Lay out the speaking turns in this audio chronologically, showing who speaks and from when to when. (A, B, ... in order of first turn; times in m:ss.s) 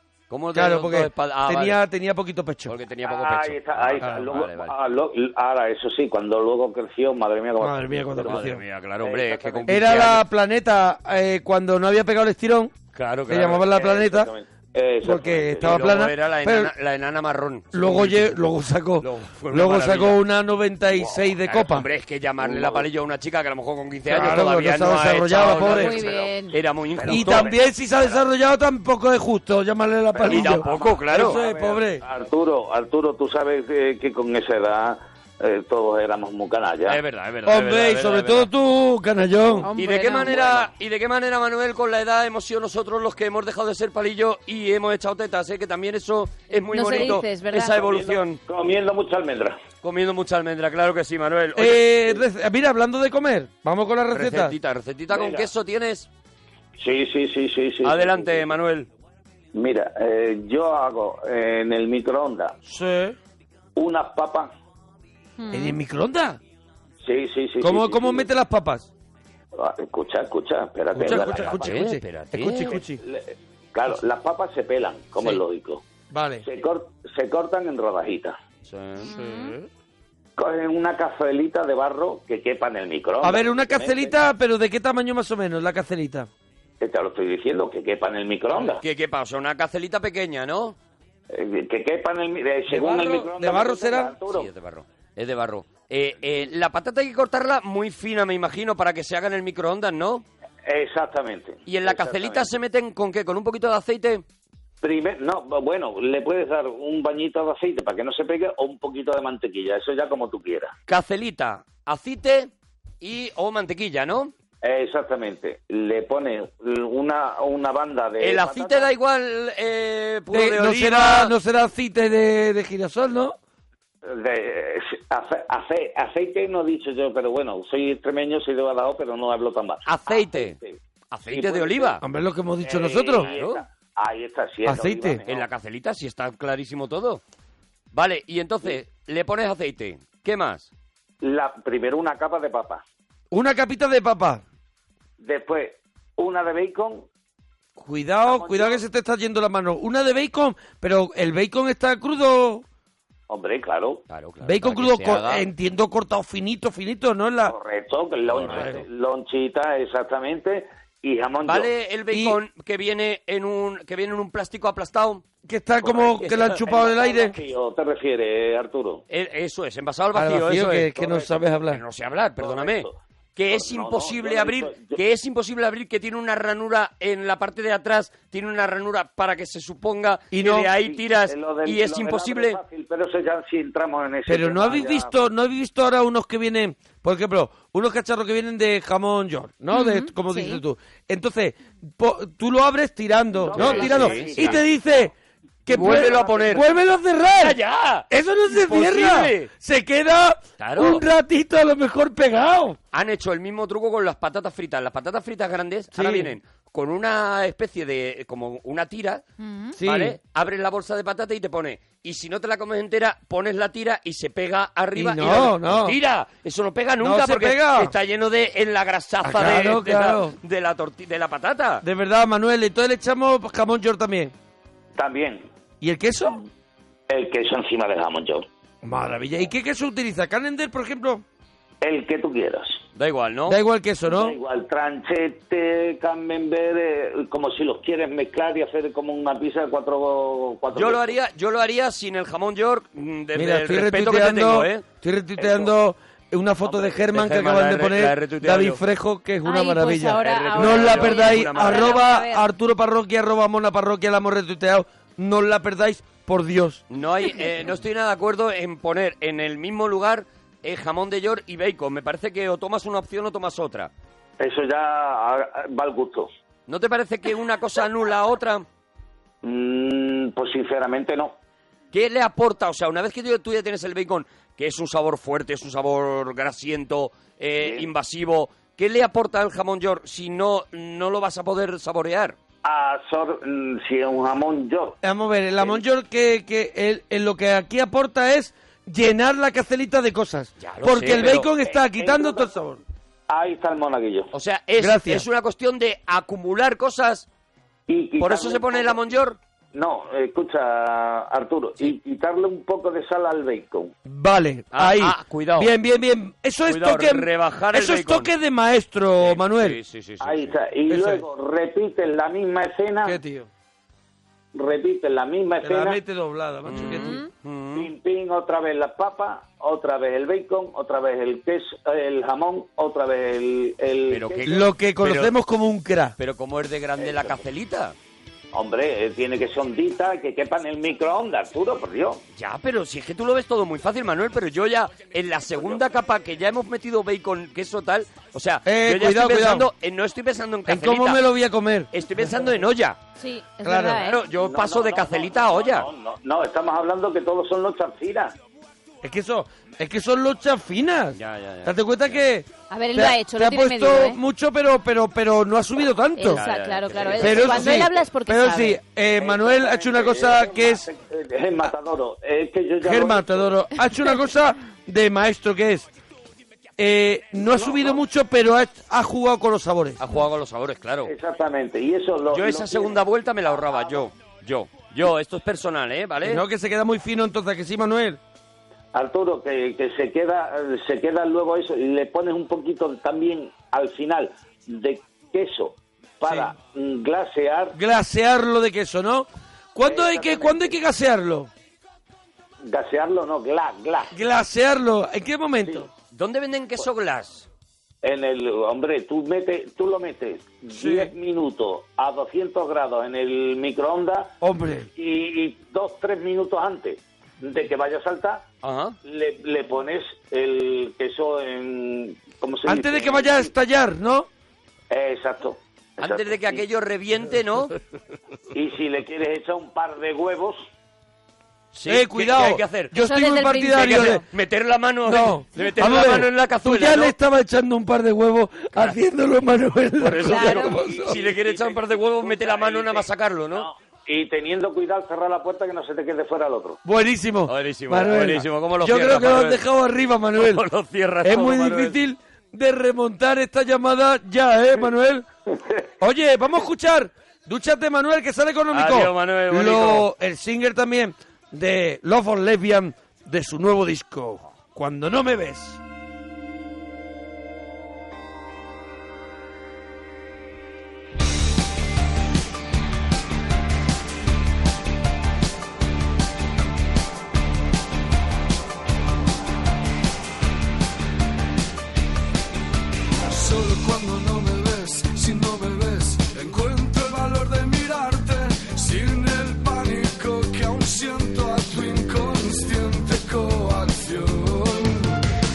0:00.3-0:01.8 A
0:00.5-0:02.8 B
0:02.7-0:04.7 A
0:03.0-0:08.5 C
0:07.6-0:08.6 B
0:08.2-0:10.2 A
0:09.0-0:10.2 C
0:09.7-0:12.8 B
0:13.0-0:13.6 A
0:13.3-0:14.3 B
0:13.6-0:16.0 C
0:15.0-0:16.7 B
0:15.6-0:18.4 A
0:17.7-0:21.9 B
0:19.0-0:20.2 A
0:21.0-0:21.2 C
0:21.2-0:27.6 A
0:22.4-0:22.9 C
0:24.1-0:26.0 B
0:25.4-0:28.2 C
0:25.6-0:26.6 D
0:27.1-0:32.0 B
0:30.1-0:37.0 C
0:30.2-0:31.4 A
0:36.8-0:38.5 A
0:37.4-0:39.7 B
0:39.6-0:40.7 D
0:39.8-0:48.4 A
0:46.7-0:47.8 D
0:47.8-0:49.6 C
0:49.8-0:52.0 A
0:51.6-0:54.5 B
0:54.1-0:56.1 A
0:55.1-0:55.5 C
0:56.8-0:58.5 C
0:57.8-0:58.9 A
0:59.5-1:02.6 C
1:02.6-1:03.2 B
1:03.8-1:04.5 C
1:05.4-1:05.8 D
1:05.5-1:06.4 B
1:07.0-1:08.3 C
1:07.6-1:08.9 B
1:09.6-1:11.8 C
1:10.9-1:13.0 B
1:11.1-1:12.7 A
1:12.6-1:15.8 C
1:16.1-1:16.5 B
1:16.4-1:18.4 C
1:18.6-1:19.5 A
1:19.0-1:19.6 D
1:20.4-1:24.2 C
1:23.2-1:26.3 B
1:26.8-1:28.8 C
1:28.6-1:30.8 A
1:31.3-1:34.5 C
1:32.7-1:34.2 B
1:34.3-1:40.2 A
1:40.7-1:42.5 C
1:41.7-1:44.2 A
1:44.8-1:50.7 C
1:50.9-1:52.5 A
1:53.0-1:54.3 A
1:54.6-1:58.9 C
1:58.2-2:01.3 A
2:00.3-2:03.4 B
2:04.0-2:12.0 C
2:09.8-2:10.6 A
2:11.1-2:12.0 A
2:12.0-2:13.3 B
2:12.6-2:15.5 C
2:13.2-2:13.6 A
2:14.6-2:15.2 B
2:15.2-2:17.2 A
2:17.9-2:20.7 A
2:21.2-2:22.8 C
2:23.3-2:24.4 B
2:25.2-2:27.1 C
2:27.8-2:32.6 B
2:28.2-2:28.8 C
2:33.3-2:34.0 C
2:34.1-2:35.5 A
2:34.4-2:37.6 B
2:37.5-2:41.7 C
2:38.3-2:38.8 A
2:38.5-2:38.8 B
2:41.4-2:45.2 A
2:42.1-2:42.4 B
2:45.5-2:47.4 B
2:45.8-2:49.0 C
2:46.0-2:46.6 A
2:49.1-2:50.9 A
2:50.1-2:51.8 B
2:51.0-2:51.4 C
2:51.7-3:02.6 A
2:52.4-2:55.0 C
3:00.3-3:00.7 B
3:00.8-3:05.2 C
3:04.3-3:15.1 B
3:09.7-3:10.6 D
3:13.4-3:15.0 C
3:13.5-3:14.6 A
3:15.7-3:17.6 B
3:15.7-3:16.7 A
3:15.7-3:16.7 C
3:17.4-3:19.5 A
3:18.1-3:22.8 B
3:20.6-3:21.0 A
3:22.9-3:29.2 A
3:25.9-3:26.4 B
3:29.4-3:29.8 D
3:29.8-3:30.2 B
3:29.8-3:41.8 A
3:35.0-3:36.0 B
3:37.0-3:37.9 B
3:39.2-3:40.4 B
3:41.8-3:44.3 B
3:45.0-3:45.5 C
3:45.8-3:46.4 B
3:47.1-3:48.5 C
3:48.8-3:51.2 B
3:51.8-3:52.8 C
3:53.0-3:53.6 A
3:53.5-3:54.4 B
3:54.1-4:01.2 C
4:00.7-4:04.8 A
4:03.4-4:16.8 B
4:05.4-4:05.7 C
4:06.6-4:07.0 C
4:07.1-4:08.8 A
4:09.4-4:12.4 D
4:10.2-4:12.0 A
4:16.9-4:23.9 A
4:24.4-4:26.3 C
4:26.7-4:28.6 A
4:29.4-4:31.4 C
4:31.9-4:42.4 A
4:37.6-4:37.9 C
4:42.6-4:45.0 C
4:45.0-4:52.8 B
4:50.6-4:51.5 A
4:51.4-4:52.5 C
4:53.3-4:54.3 C
4:54.3-4:57.3 A
4:54.8-4:55.3 B
4:57.9-4:59.0 C
4:58.2-4:59.4 A
4:59.7-5:03.9 C
5:04.1-5:09.8 B
5:04.7-5:05.7 A
5:06.7-5:08.3 A
5:09.2-5:10.6 A
5:10.2-5:13.2 C
5:10.9-5:11.2 B
5:13.0-5:13.5 B
5:14.6-5:16.0 C
5:15.6-5:17.2 B
5:16.6-5:17.9 A
5:16.8-5:17.3 D
5:17.7-5:24.6 C
5:24.1-5:25.4 A
5:24.4-5:26.2 B
5:26.2-5:28.0 A
5:27.0-5:27.4 C
5:28.5-5:32.2 C
5:32.4-5:41.2 A
5:38.6-5:39.7 B
5:40.7-5:41.9 B
5:41.9-5:43.0 A
5:43.2-5:44.2 D
5:43.6-5:44.0 B
5:43.9-5:45.9 A
5:44.3-5:48.4 C
5:49.0-5:56.4 B
5:51.1-5:52.1 A
5:52.7-5:54.2 D
5:56.2-5:58.8 D
5:56.3-5:57.9 A
5:57.1-6:00.9 B
5:59.1-6:03.6 C
6:02.8-6:05.9 B
6:06.8-6:10.0 B
6:07.5-6:08.0 C
6:10.0-6:11.1 A
6:11.0-6:14.1 C
6:12.3-6:16.4 A
6:16.2-6:18.2 B
6:18.9-6:27.8 C
6:26.2-6:26.5 B
6:27.7-6:31.5 B
6:29.8-6:30.8 C
6:32.6-6:34.2 C
6:34.1-6:35.9 B
6:36.1-6:37.5 A
6:38.0-6:44.4 C
6:40.8-6:41.1 B
6:44.4-6:44.9 B
6:44.9-6:48.5 C
6:48.6-6:49.0 A
6:49.0-6:53.5 C
6:52.6-6:54.3 B
6:54.9-6:56.6 C
6:56.0-6:57.8 A
6:58.5-7:00.6 C
7:01.7-7:02.9 A
7:01.9-7:04.2 B
7:03.0-7:04.2 D
7:03.7-7:07.1 A
7:05.0-7:11.2 B
7:10.0-7:13.7 A
7:10.3-7:10.7 D
7:10.8-7:16.8 C
7:16.8-7:20.6 B
7:17.5-7:19.6 A
7:20.4-7:22.0 A
7:21.2-7:25.2 B
7:25.5-7:25.8 C
7:26.0-7:35.8 B
7:28.7-7:30.1 A
7:53.2-8:05.2 E